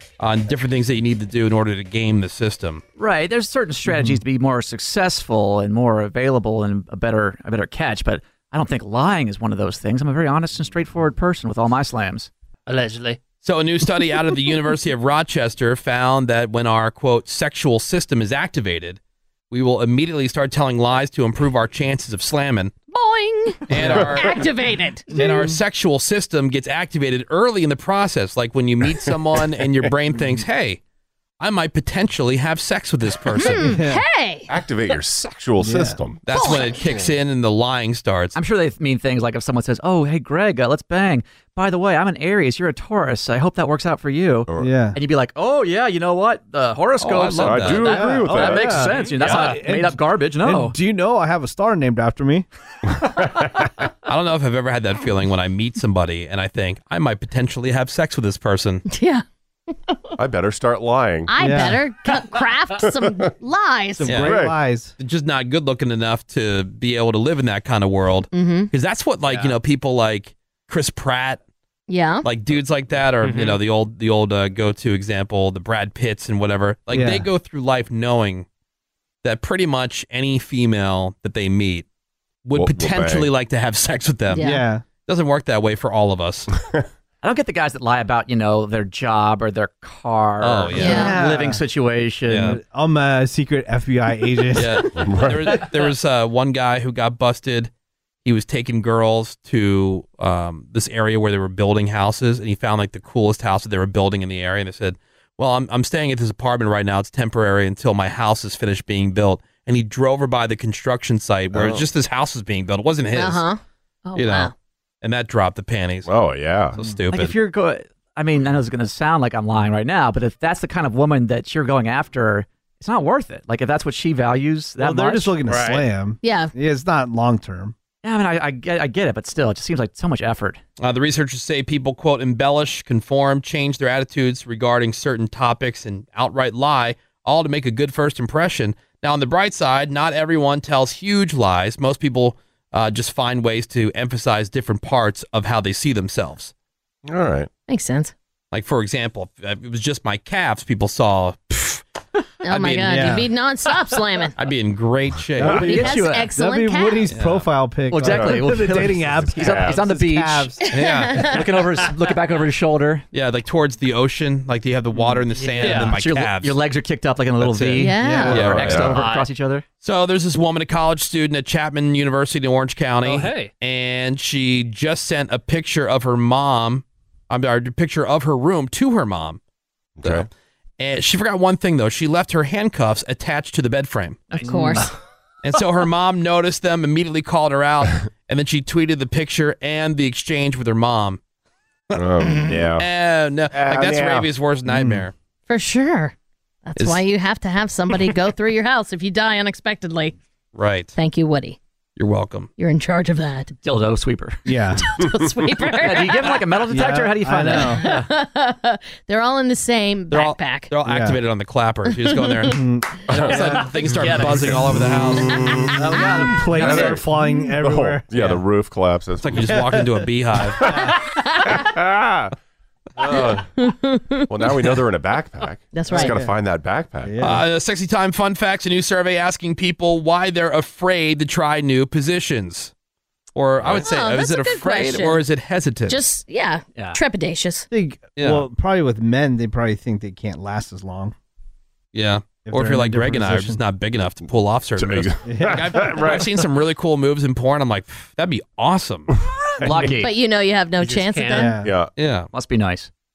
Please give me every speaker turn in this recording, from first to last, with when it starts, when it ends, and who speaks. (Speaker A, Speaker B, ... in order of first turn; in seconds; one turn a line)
Speaker A: 0.2-2.8
Speaker B: 3.0-12.3
Speaker C: 3.9-4.2
Speaker D: 12.7-13.2
Speaker A: 13.4-19.0
Speaker A: 19.5-22.7
Speaker E: 22.9-25.1
Speaker A: 23.7-24.4
Speaker C: 25.1-25.6
Speaker A: 25.1-30.8
Speaker A: 31.4-33.8
Speaker E: 33.4-34.5
Speaker C: 33.6-34.0
Speaker F: 34.5-36.2
Speaker C: 35.6-36.0
Speaker A: 36.3-38.4
Speaker E: 36.3-36.8
Speaker B: 38.4-50.8
Speaker C: 44.6-45.0
Speaker A: 47.0-48.0
Speaker F: 47.4-49.0
Speaker C: 47.9-52.5
Speaker F: 53.2-53.5
Speaker A: 54.1-58.9
Speaker E: 58.9-59.2
Speaker F: 60.2-61.3
Speaker E: 61.3-64.2
Speaker C: 61.4-61.8
Speaker C: 64.0-64.9
Speaker A: 64.0-64.4
Speaker F: 64.2-64.6
Speaker A: 65.0-71.4
Speaker E: 68.3-68.7
Speaker D: 69.3-69.6
Speaker E: 71.9-72.2
Speaker A: 72.2-78.5
Speaker D: 73.2-73.6
Speaker C: 76.9-77.3
Speaker A: 79.2-81.9
Speaker A: 82.5-84.5
Speaker F: 82.5-83.3
Speaker E: 84.3-84.7
Speaker C: 84.4-84.8
Speaker A: 85.0-86.5
Speaker B: 87.2-92.6
Speaker A: 90.4-91.2
Speaker E: 90.8-91.2
Speaker C: 90.8-91.6
Speaker A: 92.3-92.6
Speaker C: 92.5-95.0
Speaker A: 94.5-97.7
Speaker F: 95.0-95.6
Speaker A: 98.2-113.4
Speaker F: 111.5-111.8
Speaker E: 113.1-114.5
Speaker A: 114.2-114.5
Speaker A: 115.0-116.1
Speaker F: 116.1-116.8
Speaker A: 116.7-117.3
Speaker B: 117.1-125.4
Speaker C: 124.8-127.8
Speaker A: 125.5-125.8
Speaker E: 126.2-126.5
Speaker B: 128.0-130.6
Speaker A: 130.8-146.5
Speaker F: 147.1-147.5
Speaker E: 147.7-148.1
Speaker A: 148.5-151.8
Speaker E: 152.4-154.3
Speaker A: 152.5-153.2
Speaker C: 152.9-153.3
Speaker A: 154.4-155.8
Speaker F: 155.4-155.8
Speaker C: 155.4-160.6
Speaker B: 155.4-156.3
Speaker E: 155.6-157.1
Speaker A: 157.1-157.5
Speaker B: 157.9-163.0
Speaker F: 158.0-159.8
Speaker E: 160.7-161.4
Speaker A: 160.7-161.4
Speaker A: 163.1-166.6
Speaker D: 165.3-166.0
Speaker B: 165.6-169.7
Speaker A: 167.4-168.9
Speaker E: 167.8-168.4
Speaker C: 168.0-168.4
Speaker F: 168.2-169.0
Speaker D: 168.9-169.3
Speaker A: 169.8-179.4
Speaker D: 173.0-173.5
Speaker F: 180.0-180.3
Speaker A: 180.0-180.3
Speaker A: 180.8-184.3
Speaker B: 184.3-184.6
Speaker E: 184.4-184.9
Speaker C: 184.5-184.8
Speaker A: 185.4-191.2
Speaker F: 191.9-192.9
Speaker A: 192.8-195.1
Speaker F: 193.5-194.3
Speaker C: 194.7-195.0
Speaker E: 195.5-196.1
Speaker E: 196.7-200.2
Speaker A: 200.5-200.9
Speaker E: 201.0-201.6
Speaker A: 202.0-202.5
Speaker E: 202.6-203.6
Speaker B: 203.6-204.5
Speaker C: 204.5-204.8
Speaker E: 204.8-206.4
Speaker B: 205.7-208.1
Speaker C: 206.7-207.8
Speaker E: 207.5-210.7
Speaker A: 210.1-215.6
Speaker C: 210.8-211.2
Speaker C: 212.5-213.7
Speaker F: 213.1-213.4
Speaker D: 213.8-214.6
Speaker F: 214.0-215.8
Speaker C: 215.8-218.4
Speaker B: 215.8-217.0
Speaker F: 216.5-217.1
Speaker F: 217.6-219.8
Speaker A: 219.2-220.8
Speaker F: 220.6-222.3
Speaker C: 220.7-221.0
Speaker F: 223.0-223.5
Speaker E: 223.6-224.3
Speaker F: 224.3-227.3
Speaker E: 225.7-226.2
Speaker C: 225.9-226.3
Speaker C: 227.0-227.4
Speaker A: 227.2-232.7
Speaker A: 233.3-236.0
Speaker F: 233.6-233.9
Speaker E: 233.8-235.2
Speaker E: 235.9-237.7
Speaker C: 237.7-241.1
Speaker A: 238.2-238.5
Speaker A: 241.9-249.2
Speaker C: 242.4-243.6
Speaker F: 244.8-246.3
Speaker C: 245.2-246.1
Speaker B: 249.6-250.1
Speaker E: 250.0-251.6
Speaker D: 250.8-251.6
Speaker C: 251.3-251.7
Speaker F: 251.6-251.9
Speaker A: 252.0-252.3
Speaker B: 252.3-252.9